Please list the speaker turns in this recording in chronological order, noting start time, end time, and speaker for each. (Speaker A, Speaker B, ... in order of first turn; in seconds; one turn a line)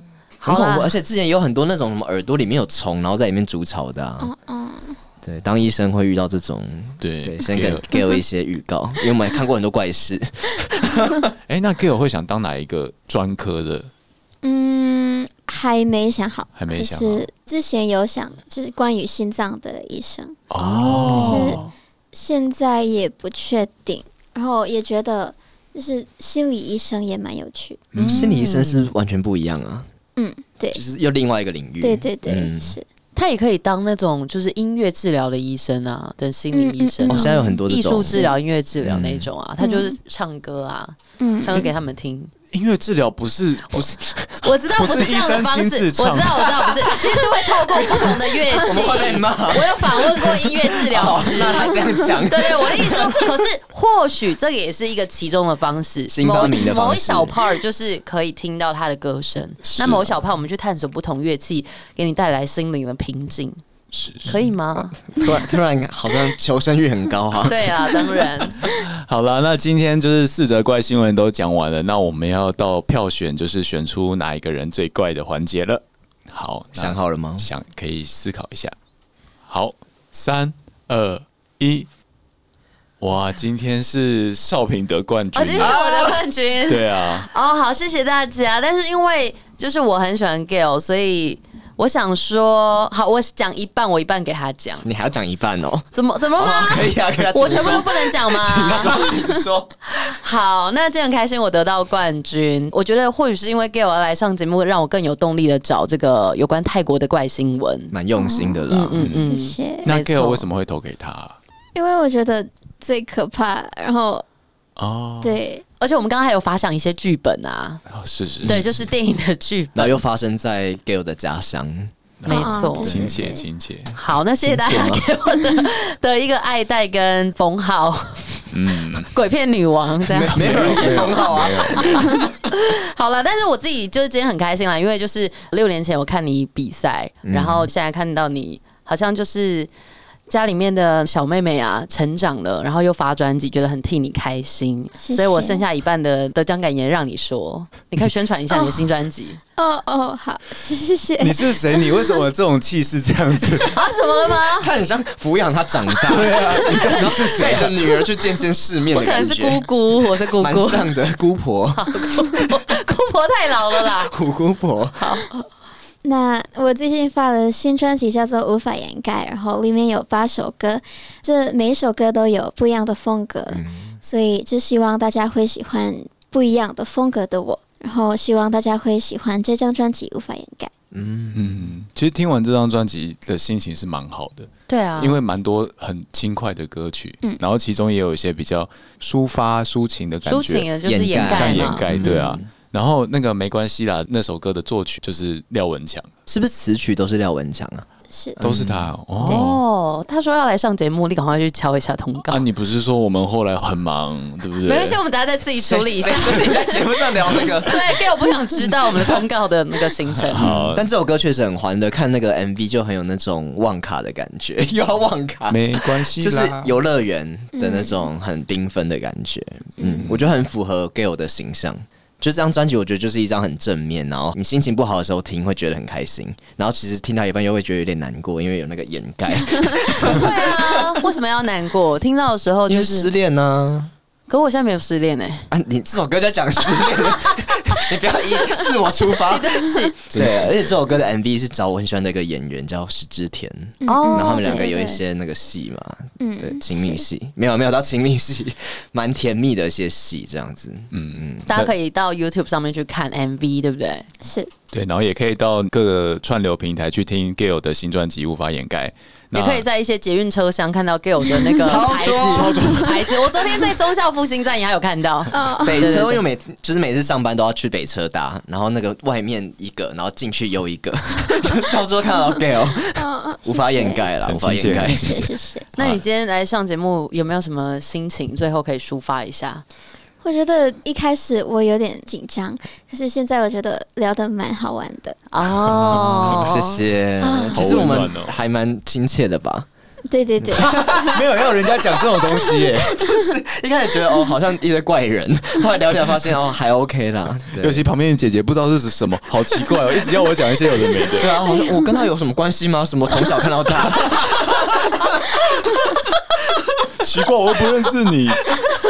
Speaker A: 0.4-0.9
Speaker B: 0.4-4.3
Speaker C: 4.2-5.0
Speaker B: 5.2-11.3
Speaker D: 7.0-7.9
Speaker D: 11.5-13.9
Speaker C: 14.4-21.6
Speaker D: 16.6-17.3
Speaker D: 20.5-21.7
Speaker A: 20.8-21.6
Speaker B: 21.1-21.6
Speaker C: 22.1-27.8
Speaker B: 27.9-29.9
Speaker D: 27.9-28.3
Speaker A: 28.0-28.8
Speaker C: 30.2-30.8
Speaker B: 30.7-32.8
Speaker C: 31.8-32.9
Speaker A: 33.1-42.3
Speaker C: 36.5-38.3
Speaker B: 37.1-39.3
Speaker C: 39.6-40.0
Speaker C: 41.2-41.7
Speaker D: 42.5-47.0
Speaker A: 44.4-63.6
Speaker B: 47.6-53.4
Speaker B: 56.1-57.4
Speaker D: 59.6-60.2
Speaker D: 63.9-64.3
Speaker A: 64.3-65.0
Speaker B: 64.8-68.4
Speaker A: 67.5-68.7
Speaker D: 68.7-78.7
Speaker B: 76.8-77.5
Speaker D: 79.5-81.9
Speaker D: 83.0-85.8
Speaker A: 85.3-94.9
Speaker B: 85.6-86.2
Speaker D: 86.7-87.3
Speaker B: 94.8-99.7
Speaker A: 95.9-107.9
Speaker B: 107.9-109.2
Speaker C: 108.2-109.9
Speaker A: 108.7-110.5
Speaker D: 109.8-111.4
Speaker C: 111.8-114.2
Speaker D: 114.8-115.4
Speaker C: 115.2-115.6
Speaker A: 115.8-117.8
Speaker D: 117.9-118.6
Speaker B: 118.4-118.7
Speaker A: 118.4-120.0
Speaker B: 119.8-121.9
Speaker D: 122.2-124.0
Speaker A: 122.3-123.0
Speaker C: 122.3-123.4
Speaker B: 122.8-123.1
Speaker A: 124.0-139.7
Speaker B: 124.4-125.1
Speaker D: 128.5-129.1
Speaker B: 130.1-132.2
Speaker D: 130.3-132.2
Speaker B: 137.2-137.7
Speaker A: 140.3-149.4
Speaker C: 145.0-145.6
Speaker C: 148.5-148.8
Speaker C: 149.6-151.6
Speaker D: 151.2-153.8
Speaker A: 153.7-154.7
Speaker B: 154.6-159.7
Speaker D: 156.1-157.7
Speaker A: 156.8-157.7
Speaker A: 158.9-160.9
Speaker B: 160.4-161.8
Speaker A: 161.7-164.2
Speaker B: 163.8-165.0
Speaker A: 165.0-165.4
Speaker C: 166.0-180.7
Speaker B: 173.5-174.0
Speaker B: 180.9-181.6
Speaker D: 181.3-196.1
Speaker A: 184.7-185.2
Speaker A: 190.3-192.4
Speaker B: 190.8-192.4
Speaker B: 196.3-198.9
Speaker C: 198.1-198.4
Speaker D: 198.4-199.6
Speaker A: 199.2-202.4
Speaker D: 202.3-205.0
Speaker A: 204.7-210.6
Speaker B: 205.6-208.1
Speaker D: 210.3-210.9
Speaker B: 210.3-231.0
Speaker D: 215.5-216.7
Speaker C: 217.6-218.1
Speaker C: 219.8-220.1
Speaker A: 230.0-233.1
Speaker B: 232.7-233.9
Speaker A: 234.3-235.5
Speaker B: 235.5-251.5
Speaker A: 239.1-240.0
Speaker D: 240.1-240.6
Speaker C: 243.8-244.9
Speaker A: 243.8-245.0
Speaker C: 246.2-247.1
Speaker D: 250.9-251.7
Speaker A: 251.5-254.1
Speaker C: 254.2-254.5
Speaker D: 254.7-259.6
Speaker A: 259.3-266.2
Speaker B: 261.6-262.6
Speaker D: 262.0-263.1
Speaker C: 265.3-266.1
Speaker B: 265.6-275.2
Speaker C: 272.8-274.1
Speaker D: 274.3-275.9
Speaker C: 274.8-275.6
Speaker A: 275.8-279.6
Speaker C: 280.2-285.2
Speaker A: 285.3-287.6
Speaker D: 285.6-286.4
Speaker B: 285.7-289.7
Speaker D: 287.5-288.3
Speaker C: 290.1-291.2
Speaker B: 290.4-291.5
Speaker D: 290.5-293.0
Speaker C: 292.3-293.2
Speaker B: 292.9-297.9
Speaker D: 297.6-301.4
Speaker B: 301.2-305.3
Speaker D: 306.9-308.5